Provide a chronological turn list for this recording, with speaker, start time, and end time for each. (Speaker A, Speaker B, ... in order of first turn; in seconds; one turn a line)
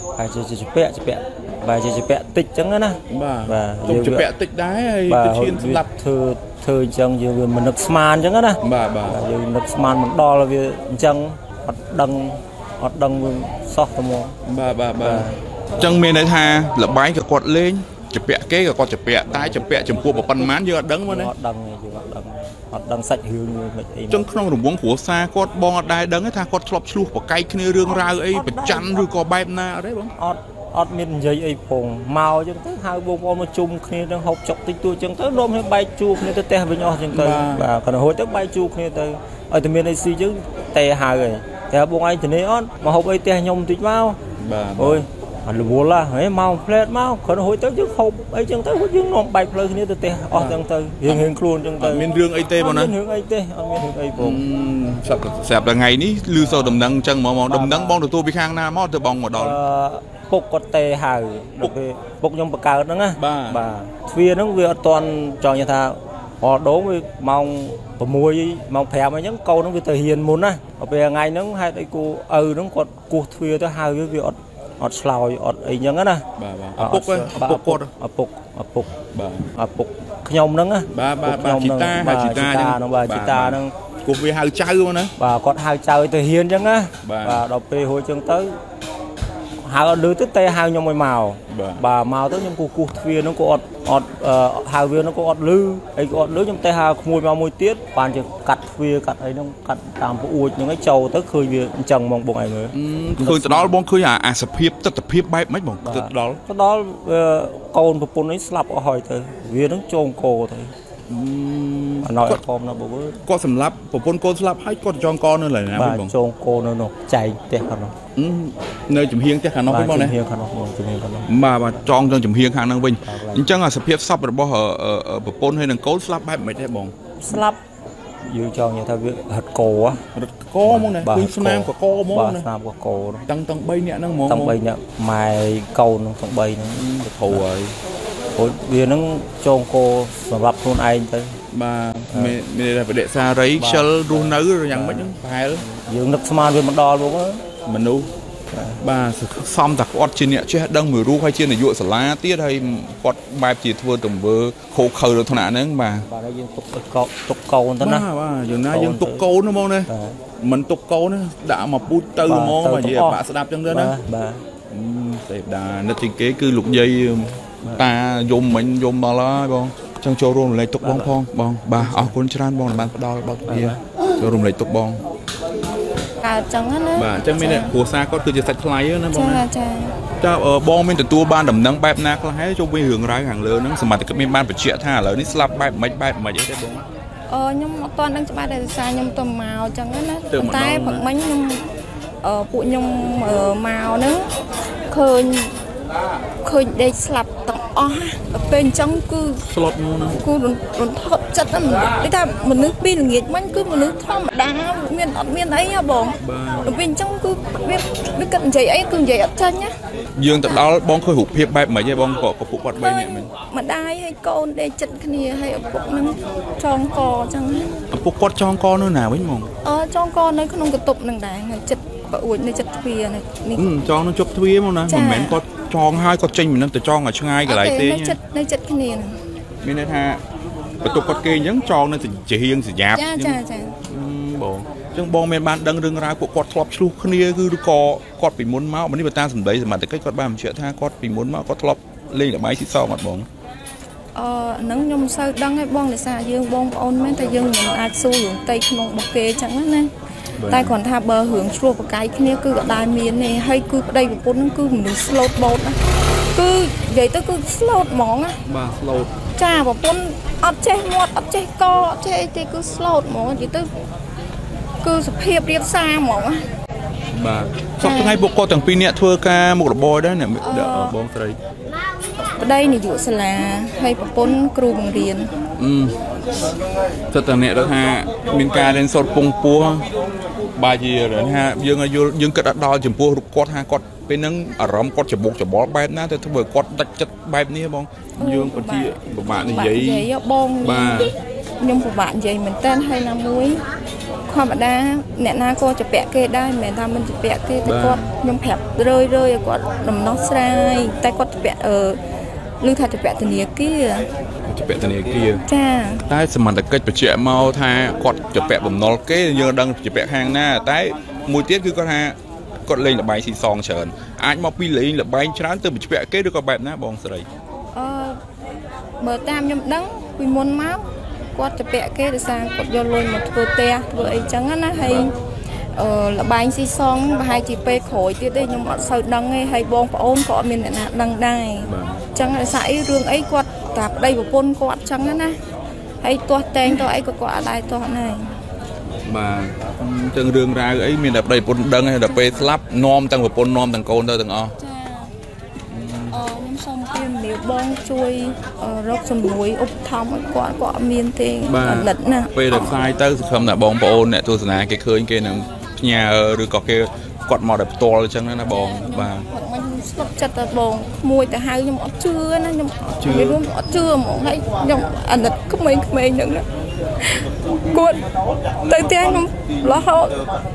Speaker A: 0.2-4.3
Speaker B: 3.1-5.9
Speaker A: 5.1-14.3
Speaker B: 8.6-9.2
Speaker B: 14.4-15.3
Speaker A: 15.0-15.4
Speaker B: 15.8-21.3
Speaker A: 19.3-20.5
Speaker A: 21.1-24.3
Speaker B: 24.1-30.1
Speaker A: 28.1-29.1
Speaker A: 30.2-44.2
Speaker B: 37.1-37.7
Speaker B: 44.4-45.1
Speaker A: 44.8-54.4
Speaker B: 50.3-52.9
Speaker B: 54.2-59.6
Speaker A: 56.4-56.8
Speaker A: 57.5-58.0
Speaker A: 59.4-76.3
Speaker B: 63.2-63.6
Speaker B: 76.4-77.9
Speaker A: 76.8-78.9
Speaker B: 79.1-79.5
Speaker A: 79.5-83.7
Speaker B: 80.9-85.1
Speaker A: 85.2-88.6
Speaker B: 87.0-87.5
Speaker A: 89.6-103.7
Speaker B: 91.5-91.8
Speaker B: 102.7-106.4
Speaker A: 105.8-110.7
Speaker B: 111.1-112.4
Speaker A: 112.0-113.2
Speaker B: 113.3-116.1
Speaker A: 115.8-118.0
Speaker B: 118.2-120.2
Speaker A: 119.7-121.3
Speaker B: 121.3-127.4
Speaker A: 123.0-123.6
Speaker A: 127.2-127.6
Speaker A: 128.2-130.0
Speaker B: 130.1-132.5
Speaker A: 130.7-133.3
Speaker B: 133.3-134.6
Speaker A: 134.3-137.4
Speaker B: 136.8-137.8
Speaker A: 138.3-141.4
Speaker B: 141.5-145.7
Speaker A: 142.1-142.4
Speaker A: 143.6-147.4
Speaker B: 147.7-148.1
Speaker A: 148.5-148.8
Speaker B: 148.8-156.1
Speaker A: 156.1-158.1
Speaker B: 157.8-164.0
Speaker A: 158.7-159.3
Speaker A: 159.9-160.2
Speaker A: 162.2-164.4
Speaker B: 164.7-175.0
Speaker A: 170.8-171.2
Speaker A: 171.8-172.1
Speaker A: 173.5-173.8
Speaker C: 176.2-177.7
Speaker B: 177.0-179.4
Speaker C: 179.1-179.9
Speaker B: 180.2-186.8
Speaker C: 187.3-191.6
Speaker B: 190.3-191.1
Speaker C: 192.2-194.3
Speaker C: 194.9-195.5
Speaker C: 196.4-199.4
Speaker B: 199.5-200.2
Speaker C: 200.2-209.7
Speaker B: 206.2-206.8
Speaker B: 210.2-213.3
Speaker C: 212.8-217.7
Speaker B: 217.9-219.5
Speaker C: 219.7-223.7
Speaker B: 223.6-228.2
Speaker C: 224.9-225.4
Speaker C: 227.5-229.2
Speaker B: 229.6-230.2
Speaker B: 230.8-243.3
Speaker C: 233.0-233.8
Speaker C: 244.2-249.9
Speaker B: 250.4-250.8
Speaker C: 250.5-255.8
Speaker C: 256.4-258.4
Speaker B: 258.5-259.1
Speaker C: 259.4-263.7
Speaker C: 264.8-266.4
Speaker B: 267.1-271.4
Speaker C: 267.8-268.2
Speaker C: 270.4-270.9
Speaker C: 272.4-275.3
Speaker B: 275.6-276.0
Speaker B: 277.1-279.9
Speaker B: 280.6-290.1
Speaker C: 288.2-293.6
Speaker B: 290.6-291.1
Speaker C: 294.3-302.0
Speaker B: 297.6-298.1
Speaker C: 302.6-304.1
Speaker B: 304.5-305.4
Speaker C: 305.5-306.1
Speaker B: 306.1-317.3
Speaker C: 317.7-318.2
Speaker C: 319.0-325.1
Speaker B: 324.0-325.1
Speaker C: 325.8-335.4
Speaker B: 331.6-332.0
Speaker C: 336.0-338.3
Speaker B: 339.1-344.6
Speaker C: 344.6-345.1
Speaker B: 345.7-346.2
Speaker C: 346.1-352.7
Speaker B: 351.5-359.3
Speaker C: 358.5-366.4
Speaker B: 362.8-363.4
Speaker C: 367.0-368.0
Speaker C: 368.6-370.2